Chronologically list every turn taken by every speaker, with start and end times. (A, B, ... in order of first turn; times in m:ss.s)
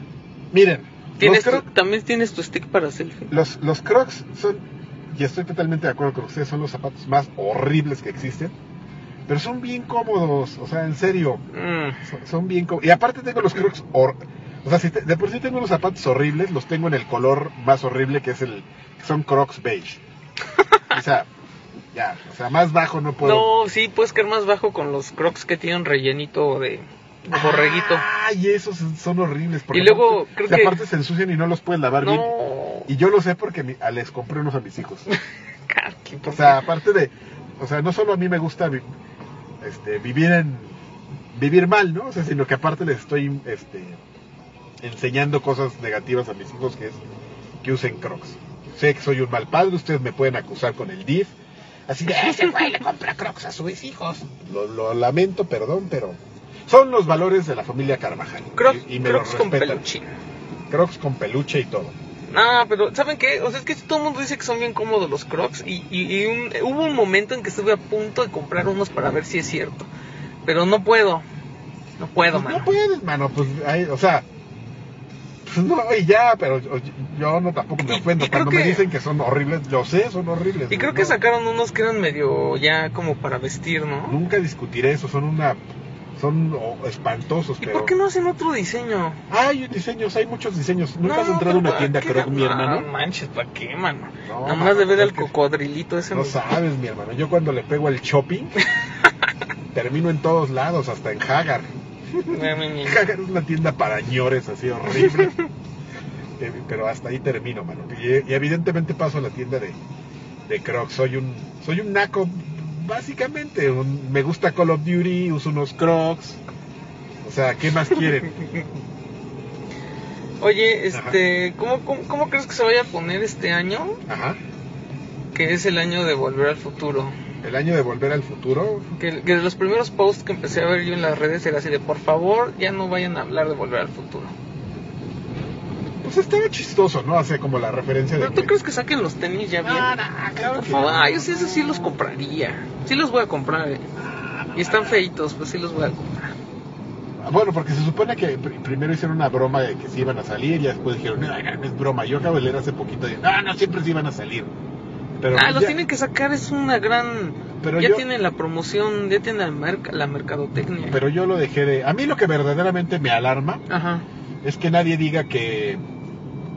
0:00.5-0:01.6 A
0:01.2-0:03.3 B
0:03.3-0:08.6 A
0:09.3-0:11.4 A
0:11.5-0:12.0 B
0:12.0-0:20.0 A
0:20.9-0:21.3 A
0:21.9-0:23.5 A
0:23.2-0:28.1 B
0:27.3-0:32.3 A
0:29.7-0:30.8 B
0:32.0-0:32.9 B
0:32.9-0:35.1 A
0:35.7-0:36.6 B
0:36.3-0:38.9 A
0:39.6-0:40.8 A
0:41.3-0:44.0 A
0:44.8-0:47.0 A
0:47.6-0:51.3 A
0:51.9-0:59.8 A
0:58.6-1:00.1 B
1:00.7-1:02.0 A
1:02.3-1:09.9 B
1:10.4-1:11.2 B
1:12.0-1:12.7 B
1:12.3-1:14.3 A
1:15.4-1:21.2 A
1:17.8-1:18.8 B
1:20.7-1:24.2 B
1:24.1-1:25.6 A
1:26.2-1:27.9 A
1:27.6-1:29.2 B
1:29.3-1:32.9 A
1:31.0-1:36.4 B
1:34.3-1:35.3 A
1:36.1-1:38.5 A
1:39.7-1:45.3 A
1:42.3-1:43.0 B
1:45.1-1:45.4 B
1:46.4-1:49.8 A
1:50.5-1:56.4 A
1:57.2-1:58.3 A
1:58.3-1:58.6 B
2:00.4-2:04.0 B
2:00.9-2:01.2 A
2:04.1-2:04.4 A
2:05.3-2:07.2 B
2:07.4-2:08.9 A
2:09.0-2:14.4 B
2:16.0-2:18.5 A
2:18.2-2:23.9 B
2:19.6-2:22.0 A
2:24.0-2:25.0 A
2:24.6-2:26.3 B
2:27.2-2:34.6 A
2:35.2-2:35.8 A
2:35.3-2:41.0 B
2:37.6-2:38.0 A
2:40.9-2:43.6 A
2:43.7-2:44.0 B
2:44.4-2:45.8 A